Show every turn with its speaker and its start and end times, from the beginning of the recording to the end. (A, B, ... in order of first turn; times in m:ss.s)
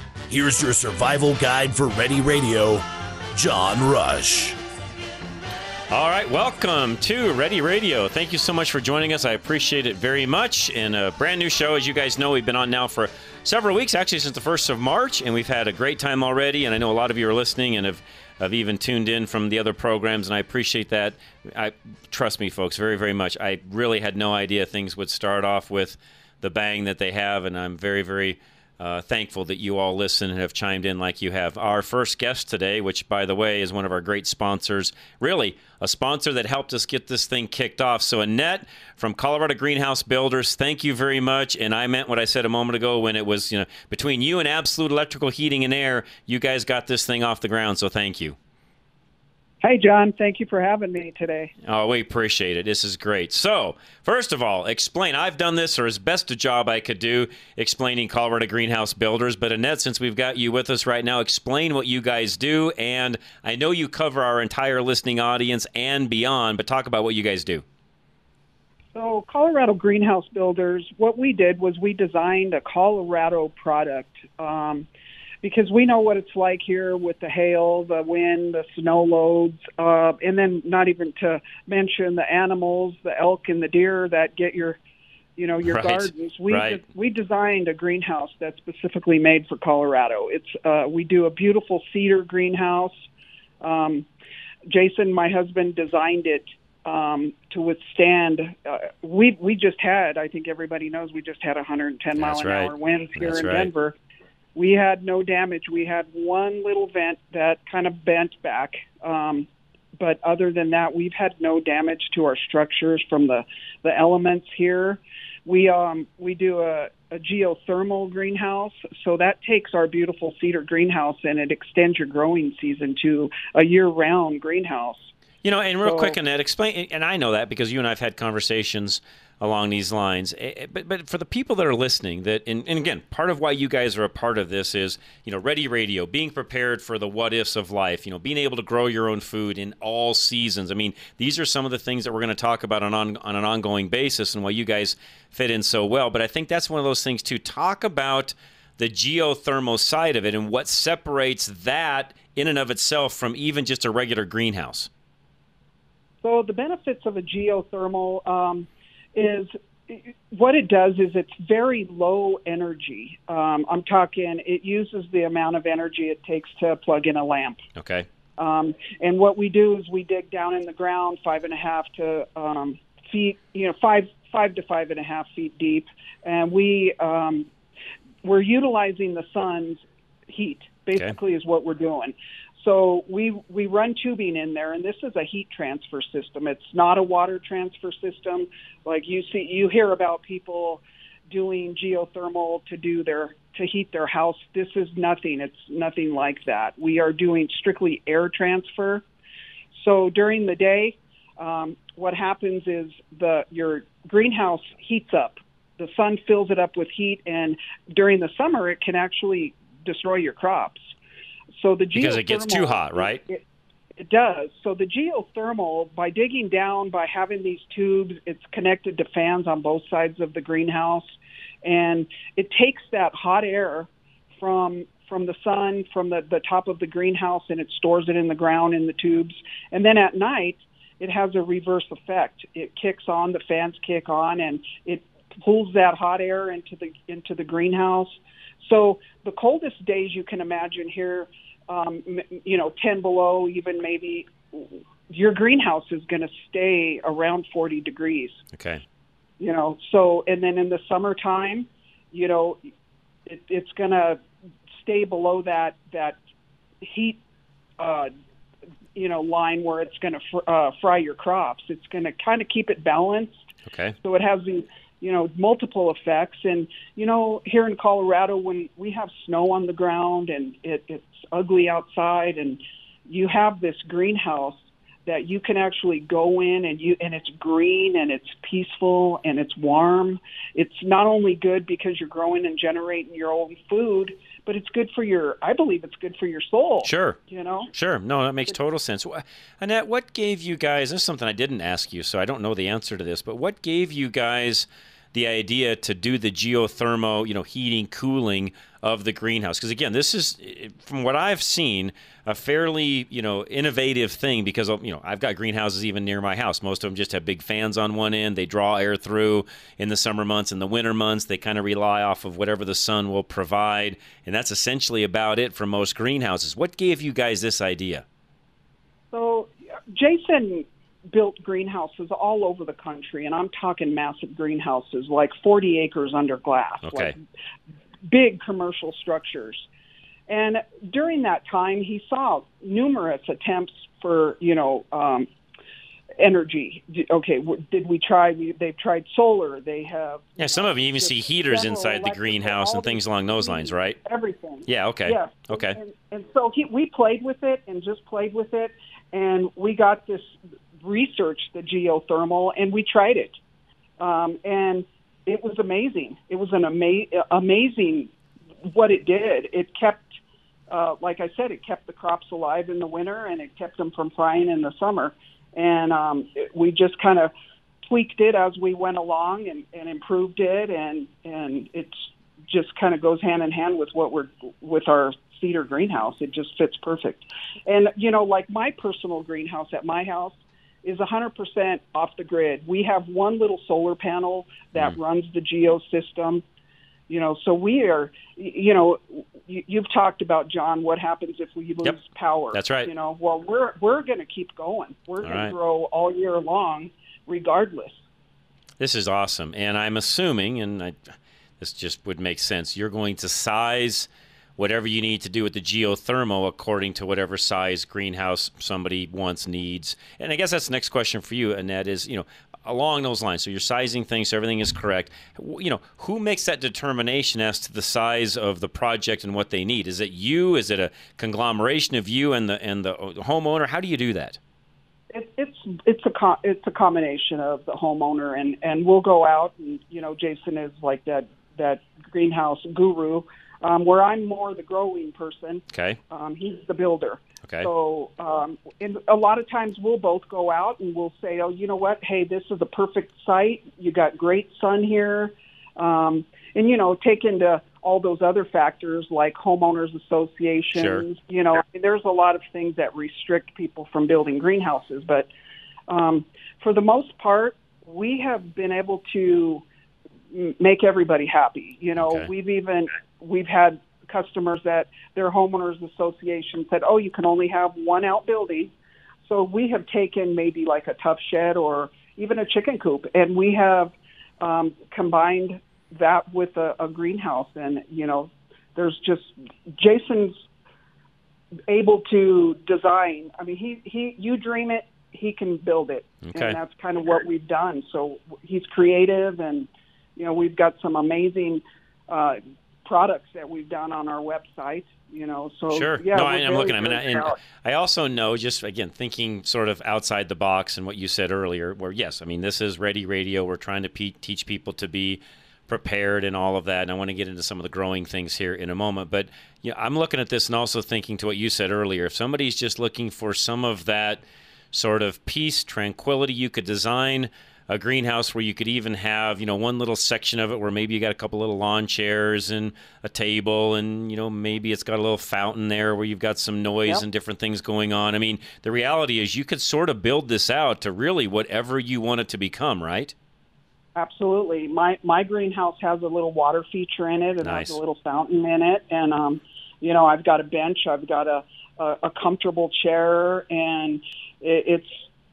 0:00.3-0:04.6 A
0:05.9-0:48.4 B
0:49.6-0:51.5 C
0:51.6-1:07.6 B
1:08.9-1:14.9 C
1:15.4-1:24.8 C
1:25.4-1:33.0 C
1:25.6-1:26.8 B
1:33.6-1:34.1 C
1:34.7-1:44.0 C
1:42.2-1:43.7 B
1:44.6-2:05.1 C
2:05.4-2:34.9 B
2:05.8-2:06.2 C
2:36.2-2:47.6 C
2:47.8-2:48.1 B
2:48.4-2:57.5 C
2:58.2-3:19.0 C
3:19.7-3:30.8 C
3:31.6-3:33.4 C
3:31.9-3:33.2 B
3:34.0-3:41.1 C
3:41.6-4:08.4 C
4:08.5-4:08.8 B
4:09.4-4:12.7 C
4:13.3-4:14.2 C
4:14.8-4:16.2 C
4:16.8-4:17.2 C
4:17.8-4:18.1 C
4:19.0-4:23.4 C
4:23.7-4:24.0 B
4:24.0-4:47.7 C
4:46.8-4:47.2 B
4:47.7-5:18.0 B
5:19.1-5:27.2 C
5:26.8-5:27.1 B
5:28.1-5:29.7 C
5:30.3-5:35.3 C
5:36.2-5:50.3 C
5:40.4-5:44.0 B
5:44.7-5:45.8 B
5:50.8-5:53.4 C
5:54.0-5:58.1 C
5:58.6-6:00.1 C
6:00.7-6:07.3 C
6:07.8-6:26.4 C
6:27.1-6:38.0 C
6:32.5-6:32.9 B
6:35.2-6:35.5 B
6:38.8-7:04.4 B
7:05.1-7:35.3 C
7:15.7-7:16.0 B
7:17.4-7:17.7 B
7:30.7-7:31.0 B
7:35.9-7:39.6 C
7:40.3-7:48.7 C
7:42.0-7:42.3 B
7:49.2-8:00.4 C
8:01.7-8:17.4 C
8:06.2-8:06.6 B
8:15.7-8:53.1 B
8:54.0-9:05.1 C
8:57.4-8:57.8 B